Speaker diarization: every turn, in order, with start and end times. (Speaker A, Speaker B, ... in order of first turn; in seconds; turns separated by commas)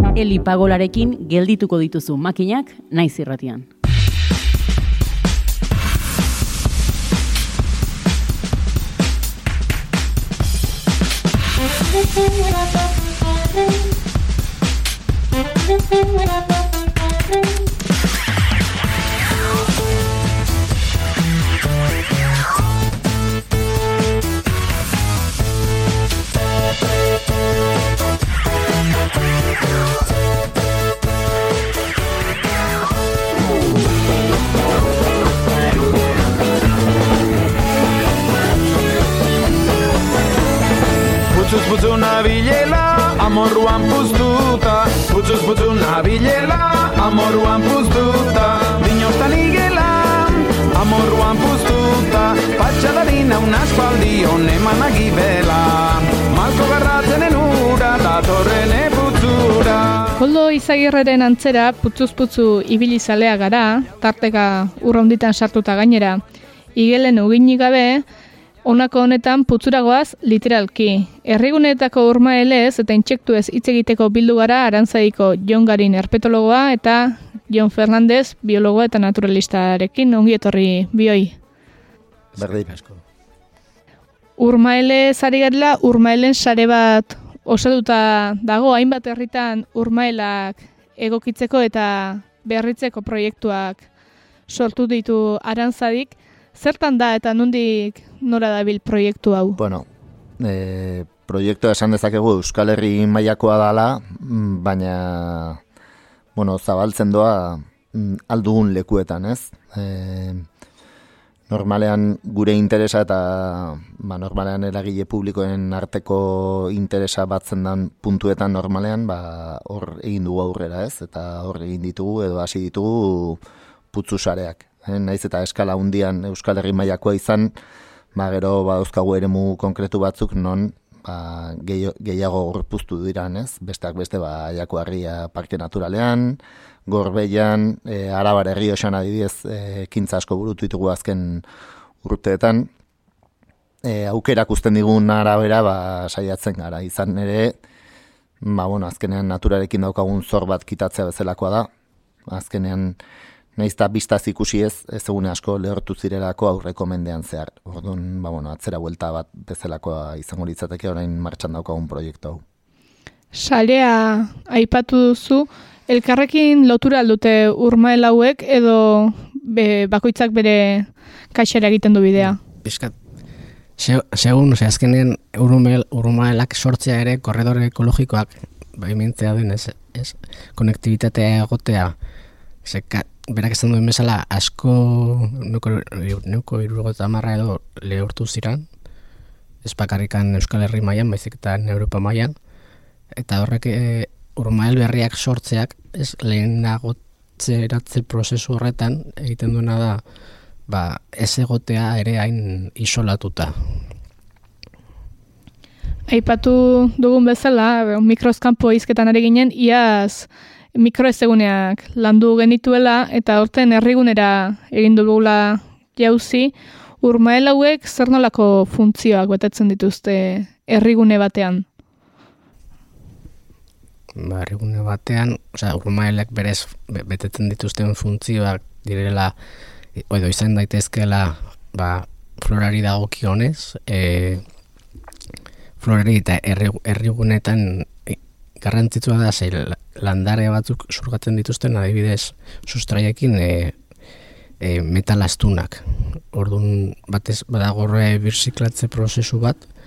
Speaker A: 0.1-3.7, Speaker B: 41.3-60.1, Speaker C: 60.2-66.2, Speaker C: 66.8-68.0, Speaker C: 68.7-81.4, Speaker D: 82.4-82.8, Speaker E: 82.4-82.9, Speaker C: 84.4-93.8, Speaker C: 94.5-99.6, Speaker E: 99.6-99.9, Speaker E: 100.4-105.6, Speaker E: 106.4-110.5, Speaker E: 111.5-123.4, Speaker E: 123.9-127.5, Speaker E: 128.2-141.4, Speaker E: 142.0-142.7, Speaker E: 143.8-147.6, Speaker E: 148.4-151.7, Speaker E: 152.3-153.0, Speaker E: 153.6-162.4, Speaker C: 163.3-172.4, Speaker D: 172.3-172.9, Speaker D: 173.8-181.9, Speaker D: 182.7-188.7, Speaker D: 189.6-192.3, Speaker D: 193.2-200.0, Speaker D: 200.7-203.6, Speaker C: 206.1-221.7, Speaker D: 224.2-229.3, Speaker D: 230.0-234.4, Speaker D: 235.8-243.8, Speaker D: 244.6-249.6